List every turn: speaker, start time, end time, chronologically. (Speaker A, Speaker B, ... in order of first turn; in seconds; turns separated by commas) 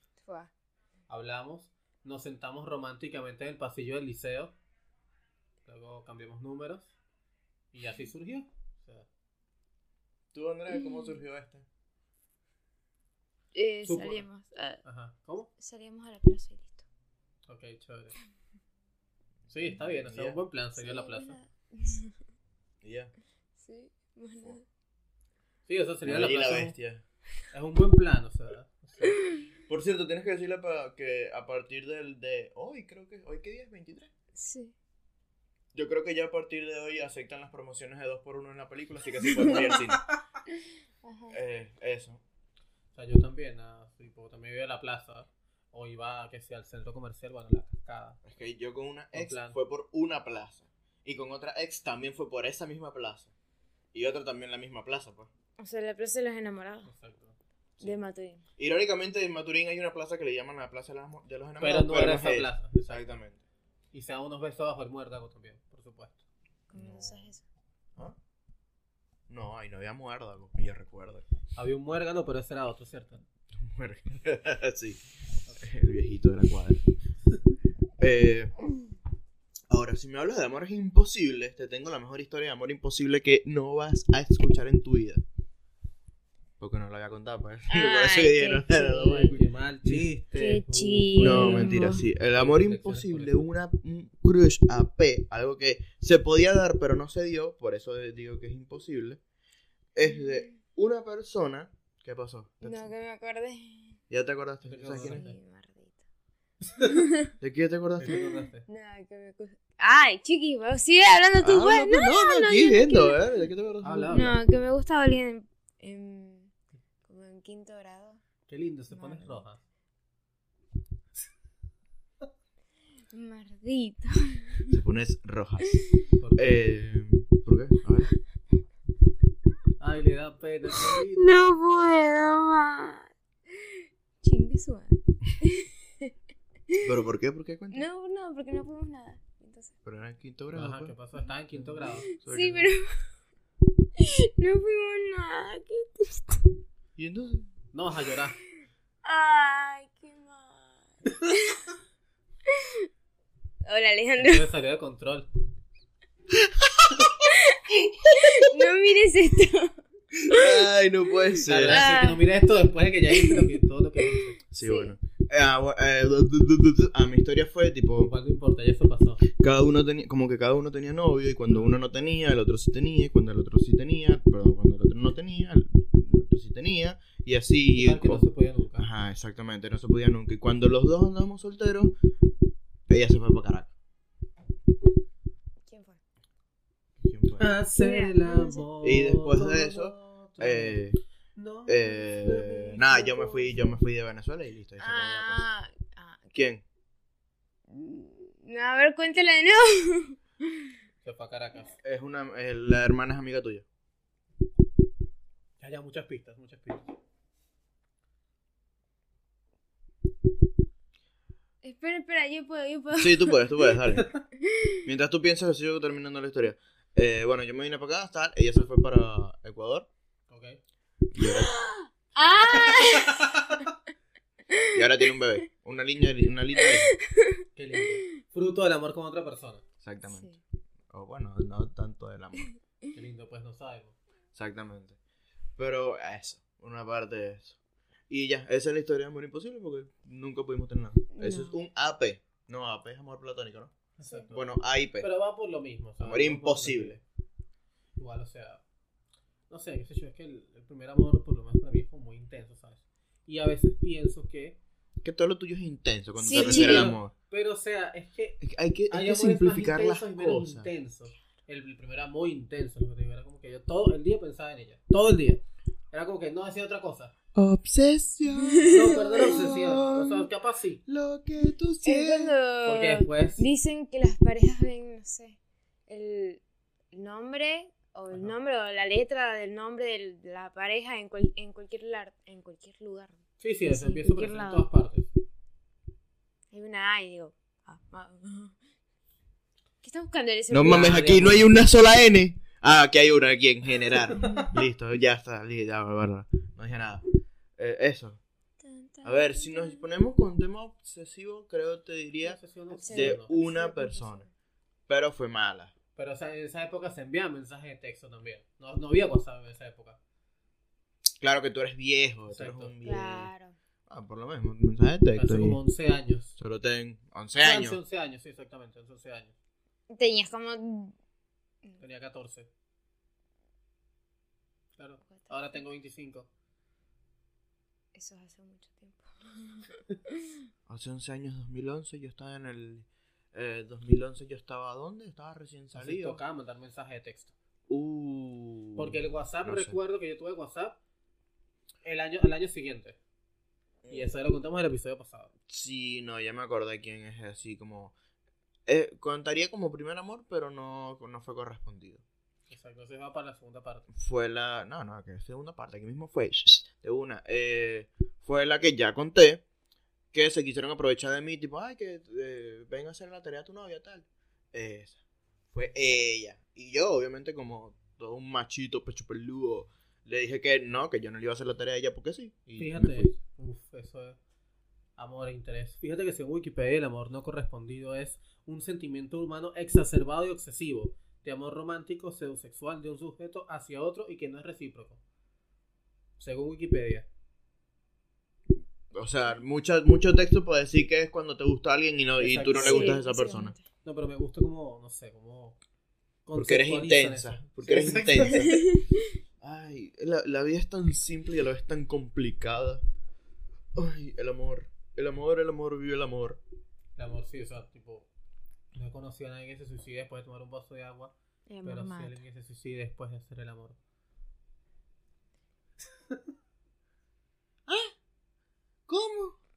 Speaker A: 0.2-0.5, Speaker B: 1.1-4.5, Speaker B: 5.7-6.9, Speaker B: 7.7-9.1, Speaker C: 10.3-11.7, Speaker A: 13.5-14.8, Speaker B: 13.8-14.2, Speaker B: 14.8-15.5, Speaker A: 15.6-16.8, Speaker B: 17.5-18.2, Speaker B: 19.5-21.4, Speaker C: 19.8-20.4, Speaker A: 20.8-22.1, Speaker C: 22.8-23.1, Speaker A: 23.6-24.6, Speaker B: 25.7-26.8, Speaker C: 26.0-27.0, Speaker B: 27.5-29.2, Speaker C: 29.7-34.1, Speaker A: 34.3-34.7, Speaker C: 35.7-40.0, Speaker A: 41.0-41.4, Speaker C: 41.3-42.2, Speaker B: 42.9-48.2, Speaker C: 48.2-53.3, Speaker B: 49.1-49.5, Speaker C: 53.9-55.3, Speaker A: 55.6-56.9, Speaker B: 56.8-57.4, Speaker A: 57.8-58.4, Speaker C: 58.6-63.4, Speaker B: 61.6-63.1, Speaker B: 63.9-66.2, Speaker A: 66.7-67.4, Speaker C: 66.7-67.3, Speaker C: 69.3-71.2, Speaker B: 71.5-73.2, Speaker C: 73.5-75.0, Speaker C: 75.5-76.8, Speaker C: 78.0-78.5, Speaker C: 79.7-85.2, Speaker C: 86.6-90.1, Speaker A: 87.7-89.4, Speaker B: 89.0-93.4, Speaker A: 90.3-92.0, Speaker C: 91.2-99.2, Speaker C: 99.9-102.9, Speaker A: 102.6-104.0, Speaker C: 104.1-105.2, Speaker B: 104.7-105.3, Speaker A: 104.9-106.0, Speaker B: 106.7-107.0, Speaker A: 106.8-107.3, Speaker C: 107.4-108.3, Speaker B: 108.0-108.7, Speaker A: 108.7-113.4, Speaker C: 111.4-114.3, Speaker B: 113.8-114.4, Speaker A: 114.1-116.5, Speaker A: 117.0-118.2, Speaker B: 118.5-119.6, Speaker A: 118.9-119.4, Speaker A: 123.1-124.8, Speaker C: 124.7-125.8, Speaker B: 126.2-126.5, Speaker C: 126.3-128.1, Speaker B: 129.8-131.2, Speaker A: 130.9-136.1, Speaker C: 136.8-137.8, Speaker A: 137.7-139.8, Speaker C: 139.8-140.9, Speaker B: 140.5-142.1, Speaker C: 141.5-142.7, Speaker A: 142.1-143.1, Speaker A: 144.0-146.5, Speaker C: 146.9-147.5, Speaker B: 147.7-148.4, Speaker A: 149.0-151.7, Speaker A: 152.5-152.8, Speaker A: 153.6-154.5, Speaker B: 154.2-155.3, Speaker C: 156.4-157.1, Speaker A: 157.2-160.7, Speaker C: 160.3-161.9, Speaker B: 161.4-164.3, Speaker A: 161.7-162.2, Speaker A: 163.1-164.9, Speaker C: 164.5-168.1, Speaker B: 168.0-169.2, Speaker C: 169.2-181.9, Speaker B: 171.5-171.7, Speaker B: 177.7-178.9, Speaker C: 182.9-183.7, Speaker A: 185.7-186.0, Speaker C: 187.0-187.5, Speaker B: 187.4-190.8, Speaker A: 187.8-188.7, Speaker C: 188.8-191.0, Speaker B: 191.3-192.8, Speaker C: 191.7-195.4, Speaker A: 192.5-193.8, Speaker A: 194.8-196.3, Speaker C: 196.3-196.6, Speaker A: 197.7-200.7, Speaker B: 201.0-201.8, Speaker C: 201.8-203.6, Speaker B: 205.6-206.9, Speaker A: 211.6-213.8, Speaker C: 213.0-214.1, Speaker A: 214.4-214.8, Speaker C: 214.8-219.9, Speaker B: 220.3-220.6, Speaker C: 221.1-221.5, Speaker A: 221.2-223.3, Speaker B: 222.6-223.7, Speaker C: 224.7-226.9, Speaker A: 226.7-227.4, Speaker B: 227.6-229.6, Speaker C: 229.8-230.4, Speaker A: 230.0-230.4, Speaker C: 230.9-232.5, Speaker B: 232.9-233.9, Speaker C: 234.3-235.0, Speaker C: 235.6-237.6, Speaker C: 238.1-243.7, Speaker A: 241.1-241.6, Speaker B: 244.0-247.0, Speaker A: 244.0-244.3, Speaker C: 244.3-245.1, Speaker C: 246.0-247.0, Speaker B: 248.0-248.6, Speaker B: 249.5-254.6, Speaker C: 255.0-257.1, Speaker A: 256.2-256.9, Speaker B: 256.3-267.1, Speaker C: 258.4-260.7, Speaker C: 267.3-270.3, Speaker A: 268.4-269.4, Speaker B: 268.6-270.8, Speaker C: 270.9-272.3, Speaker A: 271.8-275.4, Speaker B: 272.6-273.4, Speaker A: 275.9-276.4, Speaker A: 276.9-284.7, Speaker B: 283.4-285.1, Speaker A: 286.5-288.6, Speaker A: 289.8-291.3, Speaker C: 290.5-297.0, Speaker B: 290.6-291.4, Speaker B: 294.1-294.4, Speaker A: 294.2-294.5, Speaker C: 297.6-298.2, Speaker A: 298.6-299.8, Speaker C: 299.0-304.2, Speaker B: 302.2-303.3, Speaker A: 302.7-304.3, Speaker C: 304.9-305.7, Speaker B: 305.9-310.0, Speaker C: 311.2-313.3, Speaker B: 312.3-312.7, Speaker A: 312.8-313.6, Speaker C: 313.9-315.6, Speaker B: 315.1-316.3, Speaker C: 316.4-317.8, Speaker B: 317.4-319.3, Speaker A: 319.9-320.9, Speaker B: 321.8-322.5, Speaker B: 324.8-326.3, Speaker A: 325.1-325.6, Speaker A: 327.9-330.4, Speaker C: 330.7-336.2, Speaker B: 335.7-337.3, Speaker C: 337.7-339.8, Speaker B: 338.8-340.8, Speaker B: 341.8-343.0, Speaker C: 343.8-344.1, Speaker B: 343.9-345.3, Speaker C: 345.5-347.9, Speaker C: 348.6-352.0, Speaker B: 352.5-353.9, Speaker C: 353.9-359.4, Speaker C: 360.1-365.0, Speaker C: 365.5-373.1, Speaker B: 372.6-374.2, Speaker B: 375.0-385.0, Speaker B: 386.2-387.1, Speaker C: 388.9-393.5, Speaker B: 392.2-393.0, Speaker A: 392.5-393.6, Speaker B: 393.8-395.6, Speaker B: 396.2-398.5, Speaker C: 396.3-398.7, Speaker A: 398.4-398.8, Speaker C: 399.4-402.8, Speaker C: 403.7-406.4, Speaker B: 407.0-408.1, Speaker B: 408.7-411.1, Speaker A: 411.5-412.2, Speaker B: 411.6-413.8, Speaker C: 417.7-417.9, Speaker C: 418.9-419.4